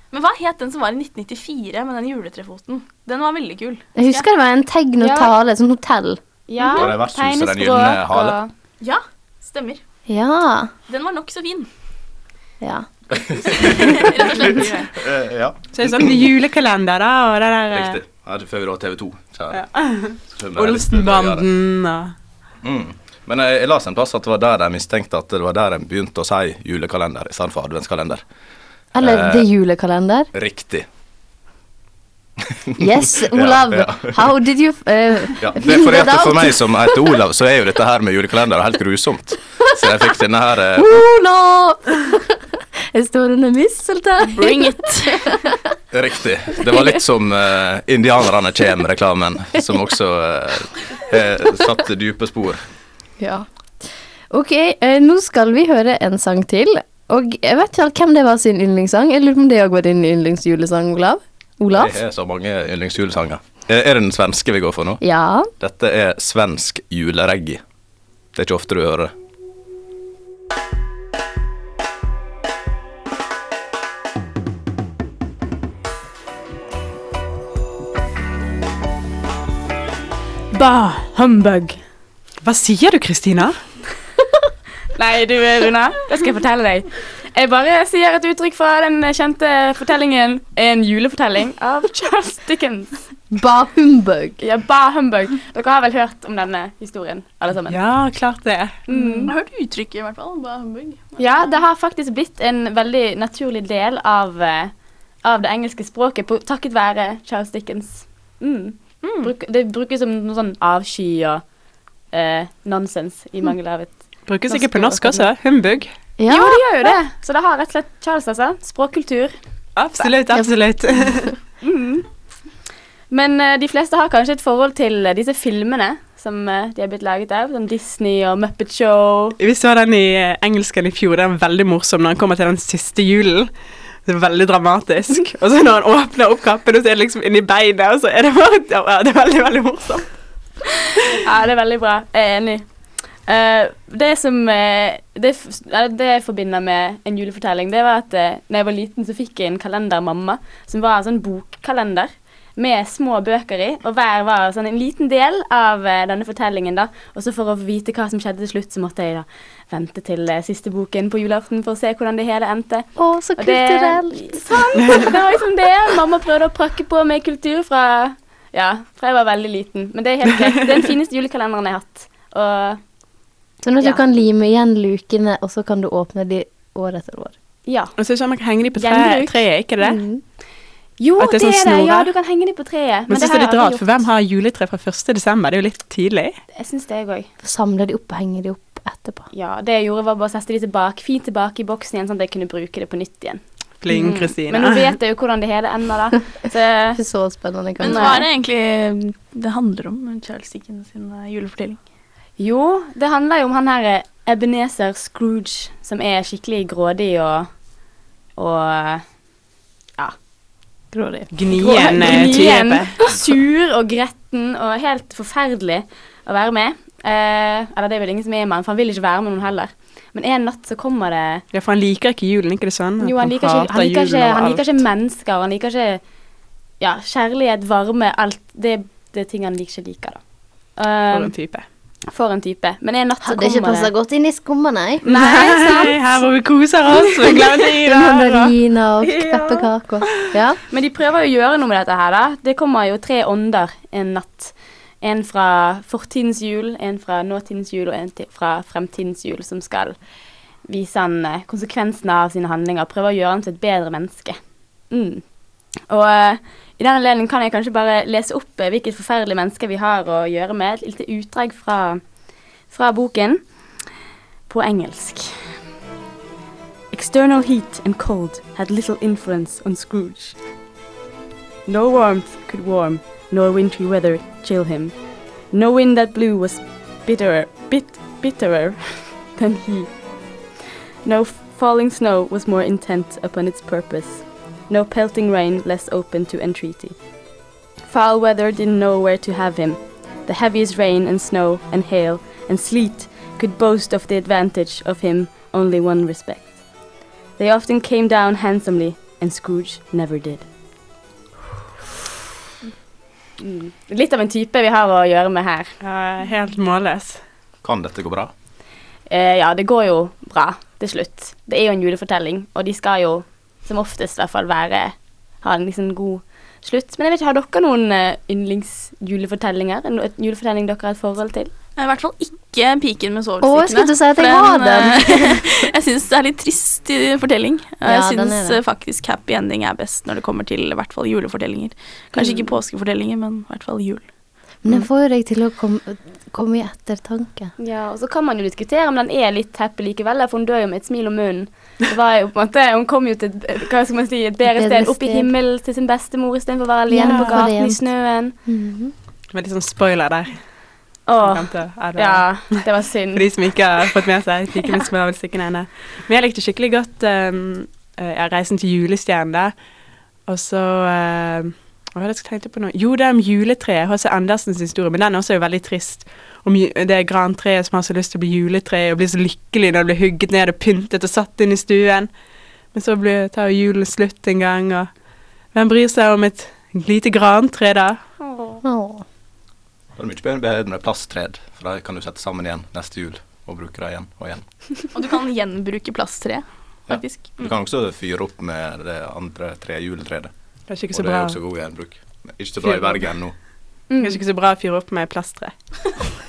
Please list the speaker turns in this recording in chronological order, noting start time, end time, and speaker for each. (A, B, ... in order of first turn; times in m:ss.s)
0:00.1-0:04.2 A
0:04.0-0:06.2 B
0:05.0-0:05.3 C
0:06.5-0:08.5 C
0:06.7-0:08.4 D
0:08.8-0:09.8 A
0:10.1-0:10.7 B
0:10.9-0:11.7 A
0:12.6-0:12.9 B
0:13.1-0:16.3 D
0:13.5-0:14.9 A
0:15.7-0:18.0 E
0:17.7-0:21.5 D
0:19.5-0:22.1 E
0:22.6-0:28.2 D
0:28.9-0:29.4 D
0:29.0-0:30.3 B
0:30.3-0:30.9 D
0:32.5-0:34.3 D
0:32.8-0:37.2 B
0:35.4-0:41.0 D
0:40.8-0:42.4 B
0:42.9-0:45.2 B
0:44.2-0:45.4 A
0:45.9-0:52.6 D
0:53.2-1:02.0 B
1:01.7-1:05.0 D
1:05.0-1:05.5 B
1:05.6-1:07.6 D
1:08.3-1:09.1 D
1:20.5-1:21.8 C
1:22.4-1:23.6 E
1:25.0-1:33.1 C
1:33.3-1:34.4 B
1:34.4-1:37.8 C
1:37.7-1:38.8 E
1:38.9-1:39.3 C
1:39.2-1:41.6 A
1:41.2-1:51.5 C
1:52.1-1:55.3 C
1:54.3-1:55.9 E
1:56.2-1:56.9 B
1:56.3-1:59.4 C
1:59.8-2:01.3 E
2:01.6-2:02.1 C
2:03.1-2:09.4 C
2:09.4-2:20.2 E
2:21.2-2:52.8 C
2:43.0-2:45.0 B
2:53.6-2:57.4 B
2:57.7-2:58.0 C
2:58.0-3:00.0 E
2:58.8-2:59.5 C
2:59.8-3:00.2 B
3:01.0-3:04.1 C
3:01.2-3:02.1 E
3:03.1-3:06.4 E
3:06.5-3:07.3 C
3:07.4-3:09.3 B
3:09.3-3:17.0 C
3:13.8-3:14.9 E
3:17.0-3:18.2 B
3:17.8-3:21.8 A
3:17.8-3:18.3 C
3:22.4-3:27.6 C
3:28.4-3:29.2 C
3:30.9-3:31.3 B
3:31.2-3:41.4 C
3:31.3-3:33.0 E
3:41.5-3:44.8 E
3:43.0-3:46.0 C
3:46.8-3:51.3 C
3:51.1-3:51.7 E
3:52.1-3:53.9 C
3:53.2-3:56.2 B
3:55.0-3:58.5 E
3:55.1-3:55.8 C
3:57.8-4:00.6 B
3:59.0-3:59.7 C
4:00.7-4:10.1 C
4:10.6-4:22.1 C
4:22.7-4:23.8 C
4:24.5-4:25.4 C
4:26.9-4:30.4 C
4:31.6-4:40.4 C
4:41.0-4:47.0 C
4:47.9-4:56.7 C
4:57.4-5:00.5 C
5:03.4-5:05.8 C
5:05.8-5:07.2 E
5:07.6-5:08.3 D
5:09.1-5:21.5 C
5:21.8-5:34.1 A
5:23.4-5:25.5 B
5:27.8-5:28.6 B
5:32.2-5:32.4 C
5:34.6-5:37.5 B
5:37.6-5:48.4 C
5:44.5-5:45.3 B
5:46.9-5:48.9 B
5:47.0-5:47.4 E
5:49.3-5:50.5 E
5:51.1-5:53.6 C
5:51.2-5:59.6 E
6:00.2-6:12.1 E
6:12.7-6:14.9 E
6:15.5-6:18.0 E
6:18.3-6:18.6 C
6:18.6-6:19.0 B
6:20.0-6:24.9 D
6:24.9-6:27.4 A
6:26.9-6:33.3 D
6:30.7-6:31.4 E
6:32.6-6:33.1 E
6:33.9-6:34.2 C
6:34.0-6:35.6 E